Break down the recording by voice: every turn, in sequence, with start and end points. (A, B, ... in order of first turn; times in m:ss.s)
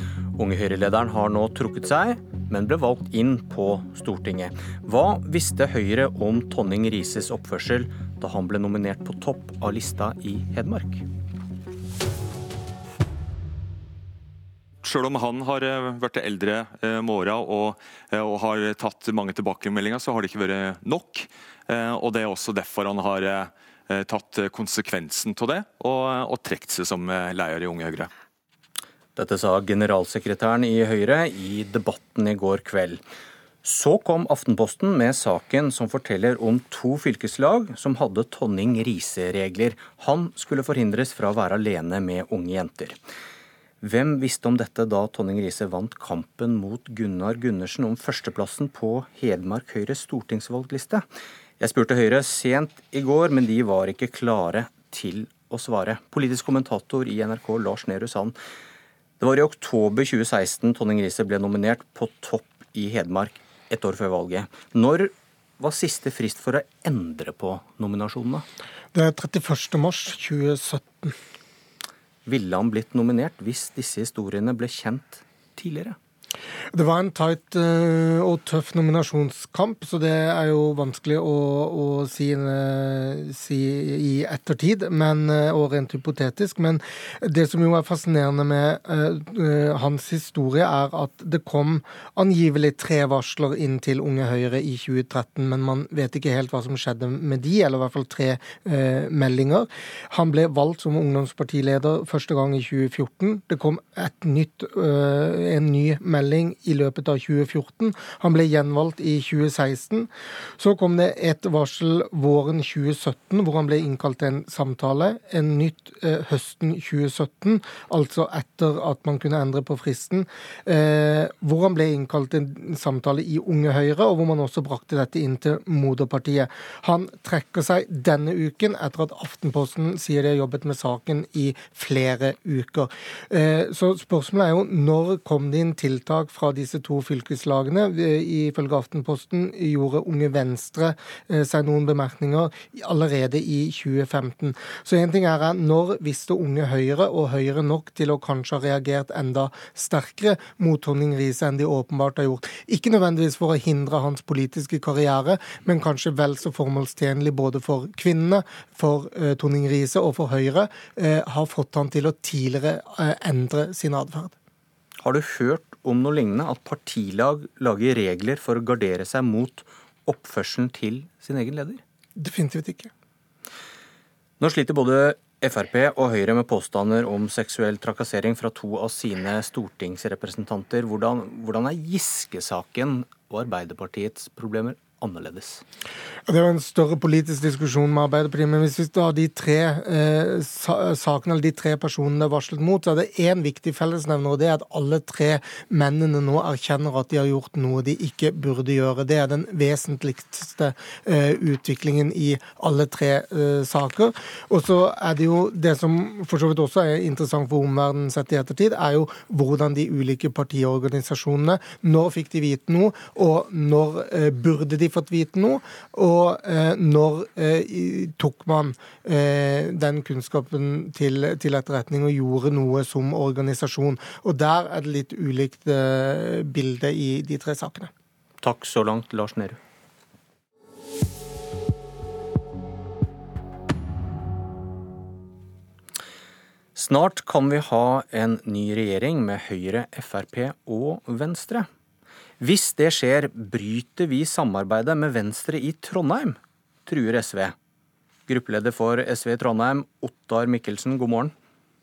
0:00.3-0:11.0 A
0:14.8-0:28.1 B
0:29.2-0:33.0 A
0:33.6-0:43.0 A
0:43.8-0:51.0 A
0:51.6-0:58.3 A
0:59.2-1:08.4 A
1:08.9-1:11.1 C
1:12.2-1:16.0 A
1:16.7-2:44.3 C
2:45.0-2:51.8 A
2:52.2-2:52.9 C
2:54.4-3:05.6 A
3:06.3-3:47.9 C
3:48.4-3:49.6 A
3:56.7-4:01.7 A
4:02.4-4:07.5 A
4:08.3-4:11.3 A